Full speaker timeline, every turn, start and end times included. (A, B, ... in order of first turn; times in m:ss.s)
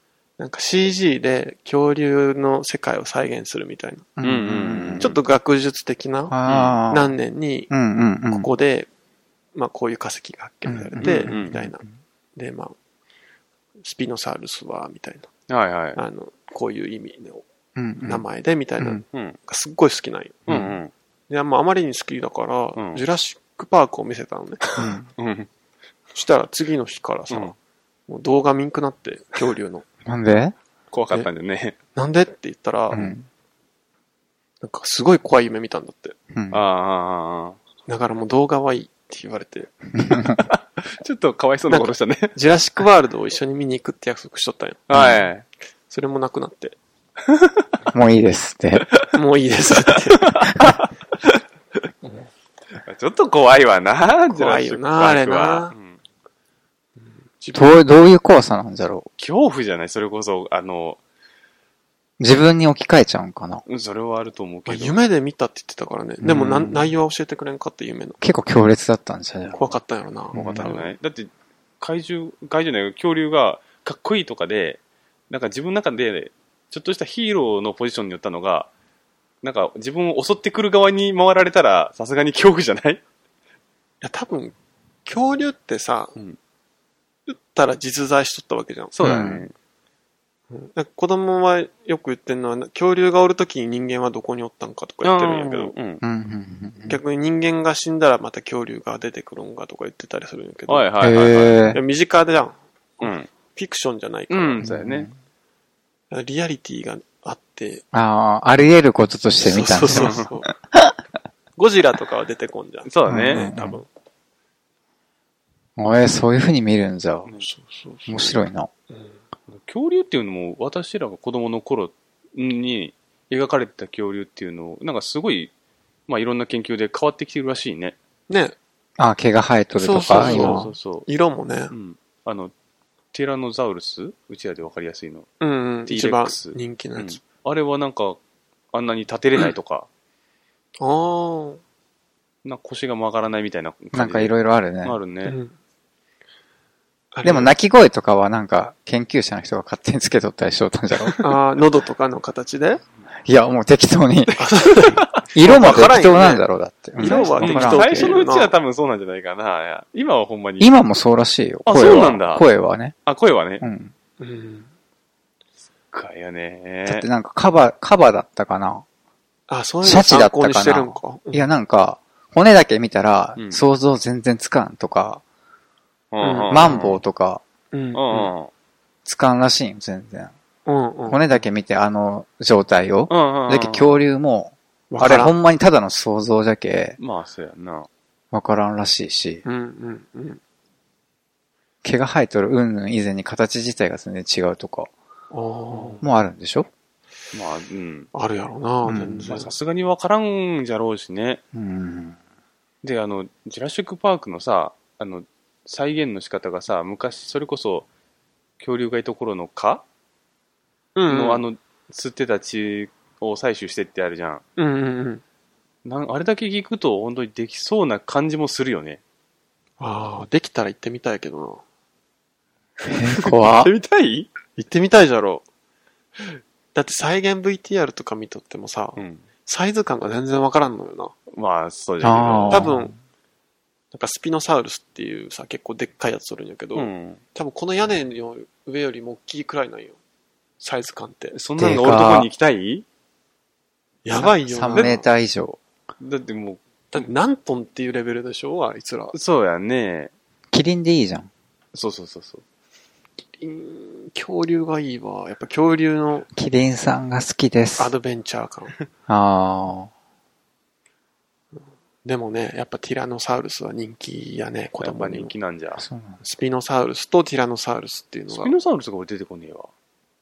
0:00.4-0:04.1 A
0:04.2-0:05.1 B
0:04.2-0:05.2 C
0:05.0-0:06.4 A
0:06.3-0:07.1 B
0:06.5-0:06.8 C
0:06.9-0:07.7 A
0:07.7-0:08.5 B
0:08.3-0:08.9 A
0:09.6-0:11.8 A
0:10.7-0:11.7 B
0:11.0-0:11.6 C
0:12.4-0:12.8 A
0:13.8-0:15.3 A
0:15.5-0:16.0 C
0:16.0-0:17.4 A
0:17.8-0:18.2 B
0:18.0-0:20.5 A
0:20.5-0:20.9 C
0:20.5-0:20.8 B
0:21.3-0:24.7 A
0:22.8-0:23.0 C
0:24.8-0:25.5 C
0:24.8-0:25.1 B
0:26.2-0:27.6 A
0:28.1-0:29.8 A
0:30.0-0:30.6 B
0:30.9-0:31.8 C
0:32.0-0:33.1 A
0:32.9-0:33.3 B
0:34.6-0:36.2 A
0:36.3-0:36.6 B
0:36.5-0:37.6 C
0:37.9-0:39.7 A
0:40.0-0:40.4 B
0:40.5-0:42.4 C
0:41.7-0:44.8 A
0:44.9-0:45.4 C
0:44.9-0:45.3 B
0:45.9-0:46.8 A
0:47.3-0:47.6 C
0:47.9-0:48.9 B
0:49.1-0:50.4 A
0:50.2-0:51.4 C
0:52.9-0:56.0 C
0:54.3-0:55.7 A
0:57.4-0:57.8 A
0:57.5-0:59.1 B
0:59.2-1:01.0 C
1:02.2-1:03.6 B
1:03.7-1:05.0 C
1:04.7-1:08.2 A
1:06.2-1:06.8 B
1:08.2-1:09.6 B
1:09.6-1:10.9 A
1:10.3-1:10.7 B
1:10.3-1:11.3 C
1:11.8-1:18.7 C
1:19.4-1:23.0 C
1:24.0-1:24.5 A
1:25.0-1:26.2 A
1:27.3-1:29.0 A
1:29.0-1:29.5 C
1:29.0-1:29.5 B
1:30.5-1:35.8 A
1:35.0-1:36.0 C
1:36.0-1:37.0 B
1:36.9-1:40.9 A
1:40.7-1:41.6 C
1:41.0-1:41.8 B
1:41.7-1:44.6 A
1:43.0-1:43.3 C
1:44.3-1:45.1 C
1:44.6-1:45.1 B
1:46.1-1:47.8 A
1:47.9-1:50.9 B
1:49.4-1:50.5 A
1:49.9-1:50.3 C
1:51.6-1:53.9 A
1:52.9-1:53.5 C
1:53.1-1:53.8 B
1:55.8-1:57.3 B
1:57.4-1:58.4 A
1:58.1-1:58.7 B
1:59.5-2:05.5 C
2:06.1-2:08.0 C
2:08.3-2:08.6 A
2:09.0-2:10.6 B
2:09.8-2:11.7 A
2:10.1-2:11.1 C
2:11.7-2:12.5 C
2:13.1-2:15.3 C
2:15.4-2:17.2 A
2:15.9-2:18.2 C
2:18.7-2:19.9 C
2:20.8-2:21.6 A
2:22.4-2:25.4 C
2:23.9-2:25.0 B
2:25.2-2:25.6 A
2:27.1-2:27.5 A
2:27.2-2:31.2 B
2:31.2-2:32.8 A
2:33.2-2:34.5 B
2:34.4-2:36.5 A
2:35.3-2:38.3 B
2:37.0-2:38.5 A
2:37.0-2:40.7 C
2:40.6-2:42.9 B
2:41.7-2:42.4 C
2:43.1-2:43.6 C
2:43.6-2:43.9 B
2:44.2-2:44.7 A
2:45.9-2:47.1 C
2:46.9-2:48.8 B
2:49.5-2:51.5 A
2:49.8-2:55.2 B
2:53.4-2:53.6 C
2:56.1-2:57.0 C
2:56.2-2:56.9 A
2:56.5-2:57.4 B
2:57.7-2:58.3 A
2:57.9-2:58.5 C
2:59.0-3:00.3 B
3:00.7-3:01.2 A
3:01.1-3:07.0 B
3:03.1-3:04.0 C
3:04.9-3:05.3 A
3:07.0-3:07.9 C
3:08.3-3:09.4 B
3:09.4-3:10.4 A
3:11.8-3:14.9 B
3:15.3-3:16.0 A
3:16.0-3:16.7 B
3:17.3-3:18.1 C
3:18.1-3:19.5 A
3:18.9-3:19.3 B
3:19.3-3:21.4 C
3:21.5-3:22.2 B
3:22.8-3:27.9 C
3:28.6-3:29.8 C
3:31.0-3:31.4 A
3:31.1-3:34.4 C
3:34.6-3:35.2 A
3:35.8-3:39.0 C
3:39.8-3:41.6 A
3:42.9-3:43.7 B
3:43.2-3:44.3 C
3:44.6-3:45.4 A
3:46.7-3:51.1 A
3:49.0-3:49.2 C
3:51.3-3:52.7 C
3:52.0-3:52.9 B
3:52.5-3:52.9 A
3:53.9-4:00.0 A
3:56.8-3:57.2 C
4:00.6-4:01.4 A
4:01.3-4:02.8 C
4:01.6-4:02.3 B
4:04.0-4:05.0 A
4:04.2-4:05.6 B
4:04.7-4:05.0 C
4:06.0-4:06.6 C
4:06.9-4:09.2 A
4:09.1-4:10.1 C
4:10.5-4:11.3 B
4:11.7-4:12.4 C
4:13.4-4:16.3 A
4:16.3-4:17.9 B
4:17.8-4:18.7 A
4:19.1-4:19.9 B
4:22.0-4:25.3 A
4:24.8-4:25.8 C
4:25.8-4:26.2 B
4:26.2-4:28.5 A
4:28.3-4:29.7 C